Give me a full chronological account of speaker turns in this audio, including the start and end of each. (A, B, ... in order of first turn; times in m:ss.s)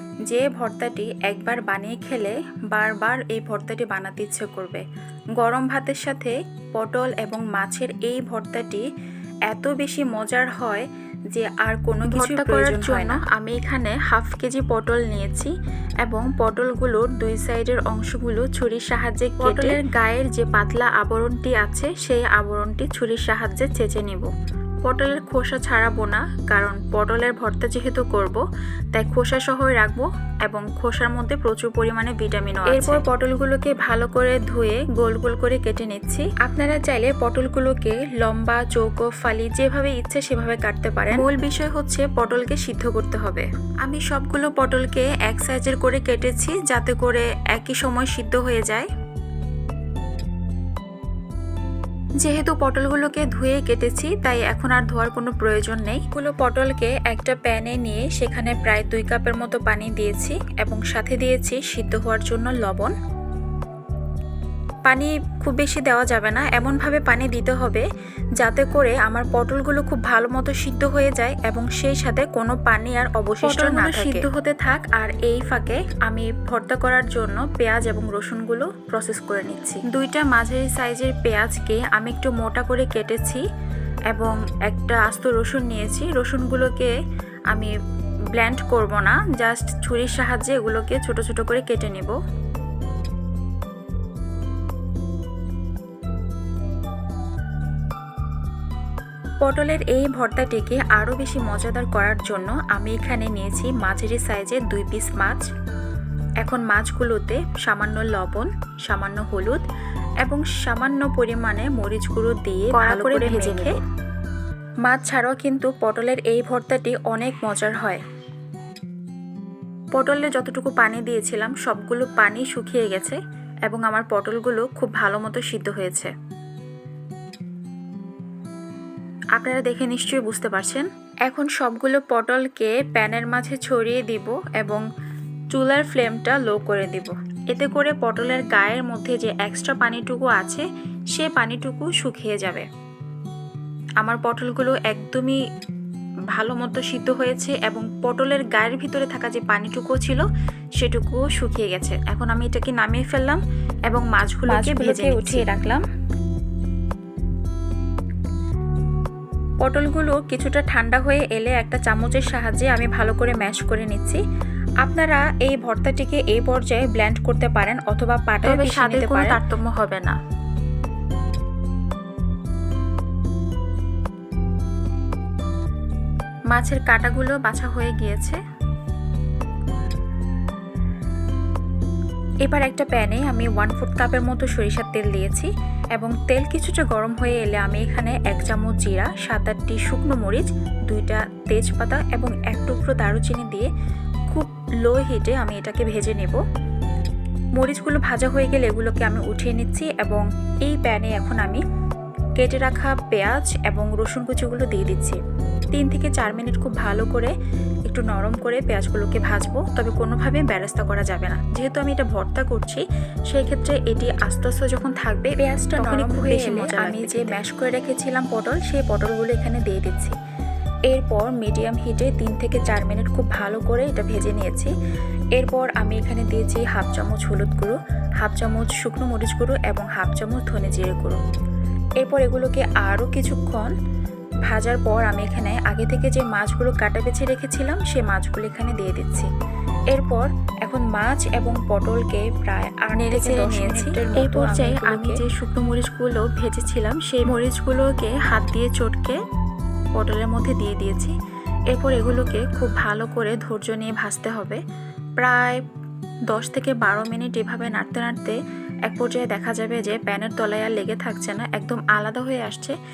0:00.3-0:04.8 A
0:05.4-0:08.8 A
0:09.5-0:15.5 A
0:12.0-0:13.2 B
0:16.0-0:24.3 A
0:19.4-0:19.8 B
0:24.8-0:28.4 A
0:29.0-0:48.9 A
0:32.6-0:33.1 B
0:52.2-1:02.9 A
1:04.9-1:07.8 A
1:08.4-1:23.4 A
1:13.4-1:14.3 B
1:24.1-1:26.9 A
1:28.3-1:32.2 A
1:39.4-1:45.4 A
1:46.4-1:49.6 A
1:50.2-1:53.7 A
1:52.7-1:53.8 B
1:54.9-1:58.0 A
1:59.9-2:06.1 A
2:09.4-2:14.8 A
2:15.5-2:22.7 A
2:24.0-2:25.4 A
2:26.3-2:30.2 A
2:30.8-2:35.8 A
2:34.4-2:35.7 B
2:39.6-2:44.2 A
2:44.8-2:49.4 A
2:48.4-2:50.1 B
2:56.5-2:58.4 A
3:02.4-3:13.7 A
3:14.3-3:16.4 A
3:17.6-3:21.6 A
3:22.4-3:25.2 A
3:25.7-3:27.3 A
3:27.8-3:40.1 A
3:35.7-3:37.4 B
3:40.9-3:44.7 A
3:45.4-3:51.2 A
3:52.0-3:53.7 A
3:54.5-3:59.3 A
3:59.9-4:09.2 A
4:02.9-4:05.4 B
4:10.0-4:11.1 A
4:11.7-4:14.6 A
4:15.2-4:15.6 A
4:16.3-4:22.8 A